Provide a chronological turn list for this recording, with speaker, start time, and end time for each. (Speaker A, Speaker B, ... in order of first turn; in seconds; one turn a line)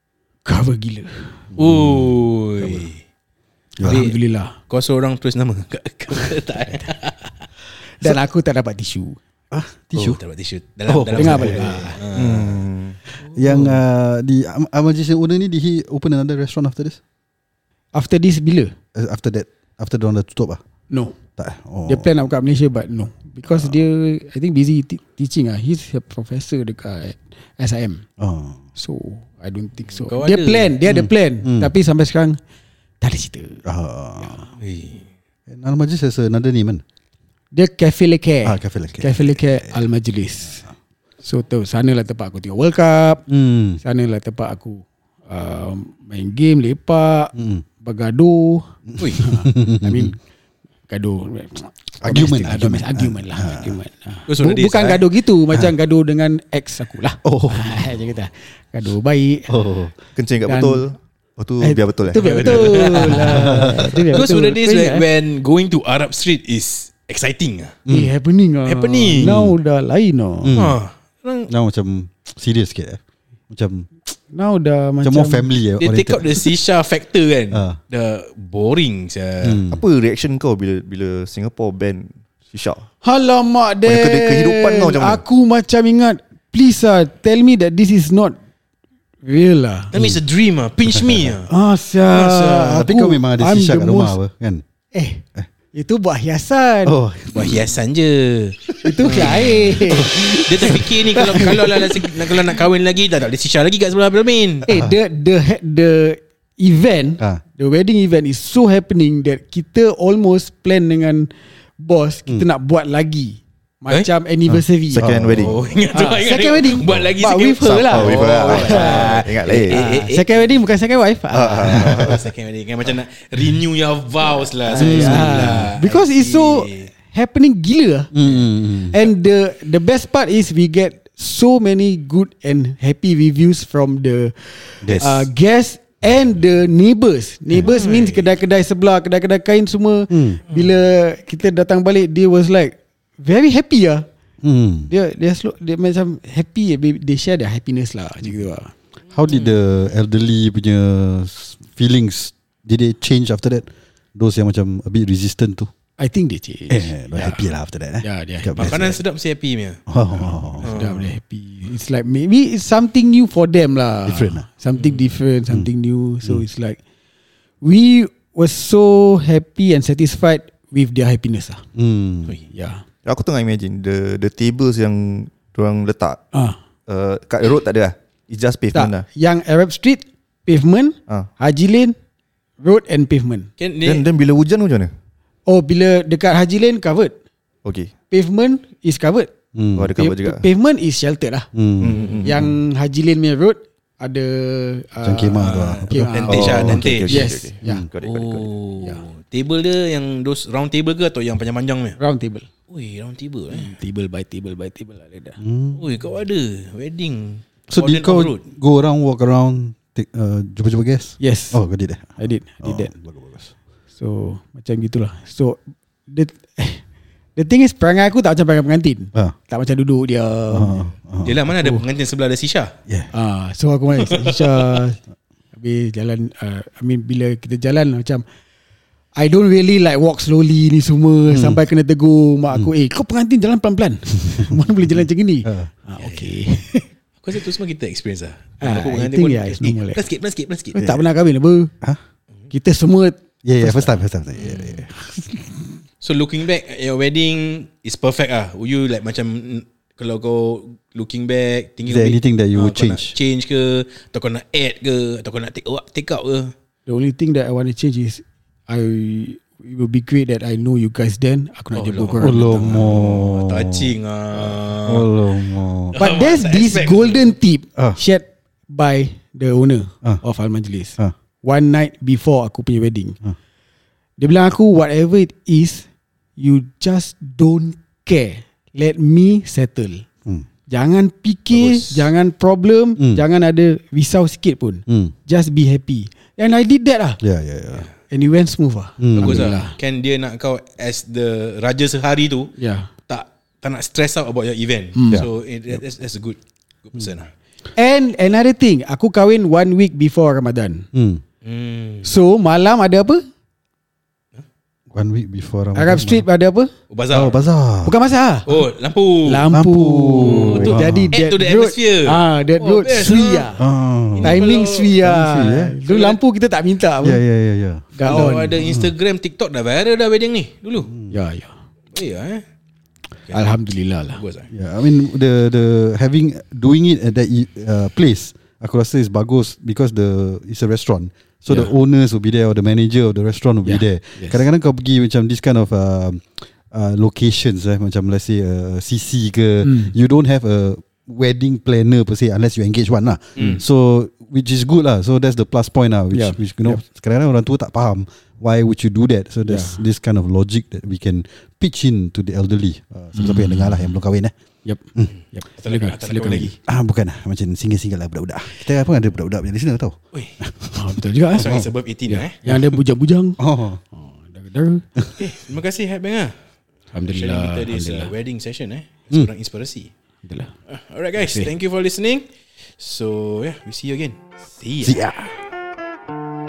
Speaker A: 0.5-1.5
Speaker B: 1.6-2.1
Speaker C: 1.6-3.0
Speaker B: 3.8-4.1
Speaker A: 3.8-4.6
Speaker C: 3.8-7.3
Speaker A: 8.0-9.2
Speaker B: 9.5-10.2
Speaker C: 9.9-12.6
Speaker B: 10.9-11.9
Speaker A: 11.1-12.0
Speaker D: 12.1-13.0
Speaker B: 13.3-17.0
Speaker C: 13.4-13.8
Speaker A: 17.9-18.8
Speaker B: 18.9-20.6
Speaker A: 20.9-21.2
Speaker B: 21.4-22.1
Speaker A: 21.9-28.0
Speaker B: 28.2-28.6
Speaker A: 28.8-32.4
Speaker C: 29.9-30.8
Speaker B: 30.9-31.7
Speaker A: 33.0-33.6
Speaker B: 33.6-34.4
Speaker A: 34.2-34.5
Speaker C: 34.6-35.0
Speaker B: 35.5-36.8
Speaker A: 37.5-40.7
Speaker B: 38.5-39.7
Speaker A: 41.2-43.2
Speaker B: 43.3-43.8
Speaker A: 43.8-50.2
Speaker B: 47.4-47.6
Speaker B: 48.9-50.1
Speaker C: 49.0-49.3
Speaker A: 50.9-59.5
Speaker B: 52.0-53.8
Speaker C: 54.3-55.1
Speaker B: 57.2-58.0
Speaker B: 59.5-60.0
Speaker D: 60.2-63.3
Speaker A: 60.5-60.9
Speaker A: 61.6-65.1
Speaker C: 62.2-63.5
Speaker B: 63.2-64.2
Speaker C: 64.1-67.8
Speaker B: 67.9-68.1
Speaker A: 67.9-70.6
Speaker C: 68.7-69.4
Speaker B: 69.2-69.5
Speaker B: 70.4-70.8
Speaker C: 70.5-71.5
Speaker B: 71.5-73.9
Speaker A: 74.3-75.5
Speaker B: 75.0-76.5
Speaker C: 75.8-79.6
Speaker B: 77.5-77.8
Speaker B: 79.4-79.8
Speaker D: 79.7-82.8
Speaker A: 83.0-88.4
Speaker D: 83.8-85.2
Speaker A: 89.2-89.9
Speaker C: 89.9-91.5
Speaker B: 90.9-91.3
Speaker A: 91.5-94.2
Speaker C: 92.1-92.8
Speaker B: 92.7-94.6
Speaker A: 94.9-97.0
Speaker B: 96.8-97.7
Speaker C: 97.3-104.7
Speaker A: 98.8-102.1
Speaker B: 99.9-100.2
Speaker B: 104.7-105.0
Speaker A: 104.7-115.3
Speaker B: 114.5-115.6
Speaker D: 114.9-115.7
Speaker C: 115.4-120.5
Speaker A: 115.9-122.1
Speaker D: 117.6-119.9
Speaker D: 121.3-122.2
Speaker B: 121.6-122.2
Speaker C: 121.8-126.9
Speaker A: 124.7-128.1
Speaker B: 124.8-125.7
Speaker B: 128.1-129.0
Speaker A: 128.9-144.1
Speaker B: 134.8-135.3
Speaker C: 137.7-138.2
Speaker B: 140.1-140.4
Speaker B: 144.4-144.9
Speaker A: 144.9-148.7
Speaker B: 149.1-155.7
Speaker C: 149.3-149.5
Speaker A: 156.0-157.5
Speaker B: 156.7-158.9
Speaker A: 158.0-159.0
Speaker C: 158.6-159.8
Speaker B: 159.9-160.7
Speaker A: 160.6-166.8
Speaker C: 160.6-161.1
Speaker B: 164.1-164.5
Speaker C: 164.8-165.1
Speaker A: 167.6-171.6
Speaker B: 171.8-172.4
Speaker A: 172.5-172.8
Speaker D: 173.1-176.2
Speaker D: 176.9-179.1
Speaker A: 178.7-181.9
Speaker A: 182.6-183.5
Speaker C: 183.6-184.1
Speaker D: 183.8-184.9
Speaker A: 185.5-187.2
Speaker D: 187.7-187.9
Speaker A: 188.1-189.3
Speaker B: 189.5-189.9
Speaker D: 189.8-190.4
Speaker A: 190.0-191.5
Speaker B: 191.5-192.5
Speaker D: 191.8-192.4
Speaker C: 191.9-192.3
Speaker A: 192.2-197.9
Speaker B: 195.0-197.0
Speaker C: 195.3-197.3
Speaker D: 196.3-198.6
Speaker C: 198.0-202.0
Speaker A: 202.0-202.5
Speaker C: 202.7-203.7
Speaker A: 203.5-205.4
Speaker B: 205.4-205.9
Speaker C: 205.8-208.4
Speaker B: 207.7-213.5
Speaker A: 211.2-211.6
Speaker A: 212.2-212.9
Speaker A: 214.0-216.8
Speaker A: 217.4-220.9
Speaker B: 220.5-221.4
Speaker C: 221.2-222.7
Speaker A: 221.5-221.8
Speaker A: 223.1-225.0
Speaker C: 224.0-224.8
Speaker A: 225.5-228.2
Speaker A: 229.2-236.9
Speaker B: 231.3-231.6
Speaker B: 235.4-235.7
Speaker C: 236.0-236.3
Speaker C: 237.2-240.8
Speaker A: 238.6-240.0
Speaker A: 240.7-241.7
Speaker A: 242.5-244.0
Speaker B: 243.4-245.0
Speaker C: 244.4-244.8
Speaker C: 246.0-256.5
Speaker B: 251.9-253.2
Speaker A: 256.9-263.0
Speaker C: 261.7-265.1
Speaker B: 262.2-263.9
Speaker B: 264.5-265.9
Speaker C: 265.9-267.4
Speaker A: 266.0-273.2
Speaker A: 274.2-275.9
Speaker A: 276.4-280.1
Speaker A: 280.7-287.2
Speaker C: 281.5-282.1
Speaker B: 284.9-285.1
Speaker B: 287.2-287.9
Speaker A: 288.1-289.8
Speaker B: 289.0-289.5
Speaker C: 289.2-292.5
Speaker A: 292.6-292.9
Speaker C: 293.1-297.3
Speaker A: 295.0-295.3
Speaker A: 297.8-300.9
Speaker B: 300.9-301.2
Speaker C: 301.4-302.1
Speaker A: 302.0-303.2
Speaker B: 304.9-306.3
Speaker A: 305.8-306.7
Speaker C: 306.9-307.4
Speaker B: 307.1-308.0
Speaker A: 307.8-308.6
Speaker C: 308.5-309.5
Speaker A: 309.2-313.6
Speaker B: 309.5-311.1
Speaker C: 310.2-313.6
Speaker B: 313.6-314.5
Speaker C: 314.2-315.0
Speaker A: 314.2-317.2
Speaker B: 315.0-315.8
Speaker C: 315.9-316.2
Speaker B: 317.0-318.9
Speaker A: 317.9-318.6
Speaker C: 318.1-320.9
Speaker A: 321.1-321.5
Speaker C: 321.9-322.4
Speaker A: 323.3-324.2
Speaker C: 324.1-324.5
Speaker B: 324.5-354.3
Speaker A: 333.6-334.4
Speaker A: 339.6-339.9
Speaker C: 343.4-343.6
Speaker A: 346.1-346.8
Speaker A: 349.5-349.8
Speaker A: 353.1-353.8
Speaker A: 354.6-356.6
Speaker C: 355.6-356.5
Speaker B: 356.7-360.9
Speaker A: 360.7-363.4
Speaker C: 361.3-362.4
Speaker B: 361.4-361.7
Speaker B: 363.4-363.8
Speaker A: 363.9-364.9
Speaker C: 365.2-366.3
Speaker A: 366.9-368.1
Speaker C: 367.1-369.9
Speaker A: 370.2-370.5
Speaker C: 370.7-372.3
Speaker A: 371.2-371.5
Speaker C: 372.8-375.0
Speaker B: 374.8-375.1
Speaker A: 375.0-375.3